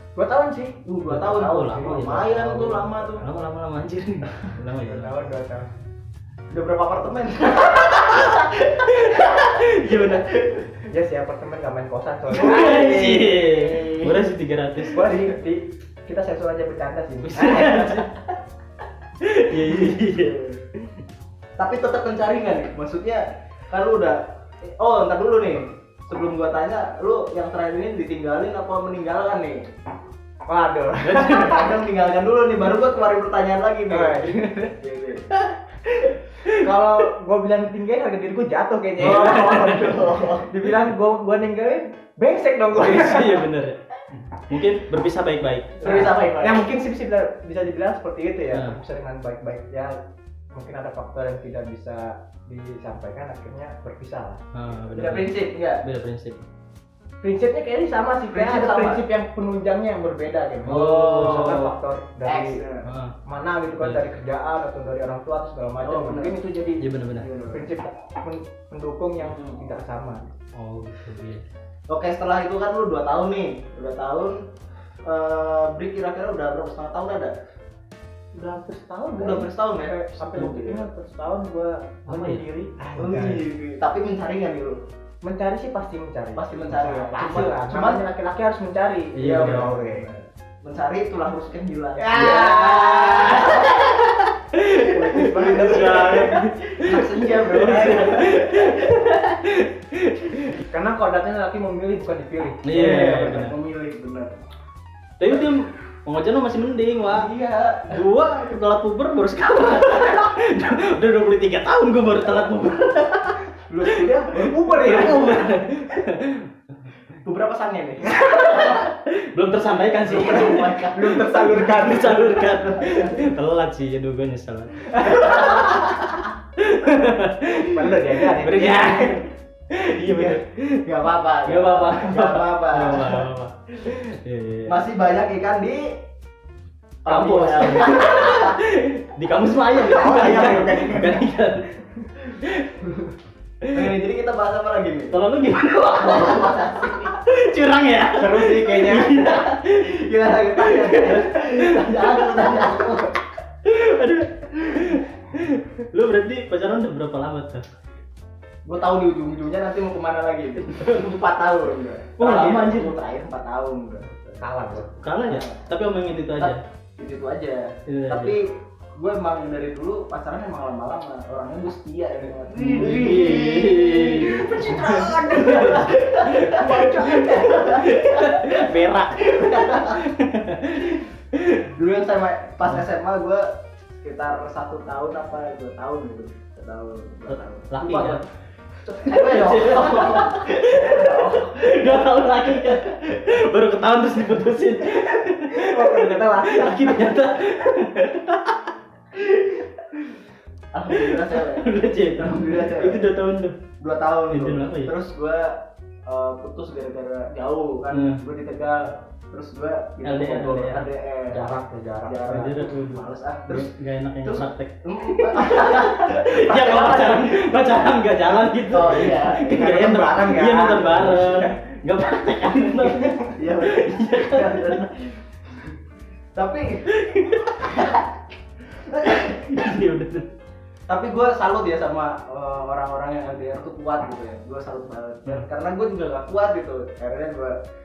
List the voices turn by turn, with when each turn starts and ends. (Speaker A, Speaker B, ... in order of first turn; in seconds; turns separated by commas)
Speaker A: 0.2-0.9, Speaker B: 0.9-3.3, Speaker C: 1.1-5.2, Speaker A: 1.6-2.1, Speaker A: 4.8-5.7, Speaker B: 6.5-10.8, Speaker C: 7.9-10.3, Speaker A: 10.9-12.8, Speaker C: 12.3-15.2, Speaker B: 12.3-14.2, Speaker A: 14.8-18.1, Speaker C: 17.2-18.1, Speaker C: 19.2-21.0, Speaker B: 19.7-20.6, Speaker B: 21.6-29.6, Speaker A: 30.5-31.7, Speaker C: 31.0-31.6, Speaker B: 31.2-35.3, Speaker A: 33.9-34.7, Speaker A: 36.5-43.5, Speaker C: 39.0-40.1, Speaker B: 39.0-40.5, Speaker C: 42.7-43.8, Speaker C: 44.4-46.1, Speaker B: 45.8-46.7, Speaker A: 45.8-50.0, Speaker A: 50.5-54.4, Speaker C: 54.5-56.4, Speaker B: 54.9-55.8, Speaker A: 57.2-62.6, Speaker B: 58.3-59.0, Speaker B: 60.6-61.7, Speaker C: 60.6-61.7, Speaker B: 62.2-62.9, Speaker C: 62.9-63.1, Speaker A: 63.2-66.8, Speaker C: 63.8-64.0, Speaker B: 65.8-66.5, Speaker C: 66.8-67.3, Speaker B: 67.2-67.7, Speaker A: 67.5-70.3, Speaker B: 69.2-69.6, Speaker C: 70.5-71.5, Speaker B: 71.9-74.4, Speaker B: 75.0-77.3, Speaker A: 78.3-83.5, Speaker B: 79.2-80.9, Speaker C: 82.1-82.5, Speaker B: 83.0-84.8, Speaker A: 85.2-90.1, Speaker B: 86.4-88.0, Speaker C: 89.2-89.7, Speaker B: 89.2-93.8, Speaker A: 92.0-93.7, Speaker C: 92.2-100.6, Speaker A: 94.7-96.4, Speaker B: 95.2-99.1, Speaker A: 97.6-98.1, Speaker A: 100.7-102.7, Speaker C: 102.6-103.5, Speaker B: 102.7-104.3, Speaker C: 105.2-107.3, Speaker B: 107.1-108.0, Speaker C: 107.9-114.1, Speaker B: 113.7-115.2, Speaker A: 114.2-115.6, Speaker C: 114.7-116.5, Speaker B: 117.2-118.8, Speaker C: 118.0-130.8, Speaker B: 120.0-123.3, Speaker A: 120.9-122.3, Speaker B: 125.1-125.8, Speaker A: 127.6-129.2, Speaker B: 130.0-133.3, Speaker C: 131.4-134.8, Speaker B: 134.7-136.0, Speaker B: 137.1-138.6, Speaker C: 137.1-141.7, Speaker A: 139.8-141.2, Speaker B: 140.1-140.7, Speaker C: 142.4-142.8, Speaker C: 143.6-143.9, Speaker B: 143.7-145.2, Speaker C: 145.1-152.8, Speaker B: 145.9-147.2, Speaker A: 148.1-149.3, Speaker B: 149.2-153.3, Speaker C: 153.6-157.7, Speaker B: 158.7-164.4, Speaker C: 160.6-161.0, Speaker C: 162.2-162.9, Speaker A: 164.4-165.0, Speaker C: 164.9-166.6, Speaker B: 165.1-165.7, Speaker B: 166.4-180.1, Speaker C: 167.9-168.4, Speaker C: 172.6-181.6, Speaker A: 176.3-177.5, Speaker B: 181.7-183.5, Speaker B: 184.0-188.2, Speaker C: 187.3-188.2, Speaker B: 189.0-191.9, Speaker C: 189.0-198.7, Speaker A: 195.5-197.2, Speaker B: 199.2-199.7, Speaker B: 200.7-203.1, Speaker C: 200.9-203.6, Speaker B: 203.8-211.6, Speaker C: 204.3-204.9, Speaker C: 207.9-208.2, Speaker C: 210.0-210.9, Speaker A: 211.3-212.5, Speaker B: 212.1-213.7, Speaker C: 212.3-224.9, Speaker B: 214.2-217.5, Speaker B: 218.7-219.8, Speaker A: 219.4-221.6, Speaker B: 223.3-225.7, Speaker B: 226.3-228.1, Speaker C: 226.9-227.9, Speaker B: 228.8-229.7, Speaker C: 229.0-230.3, Speaker B: 230.9-237.6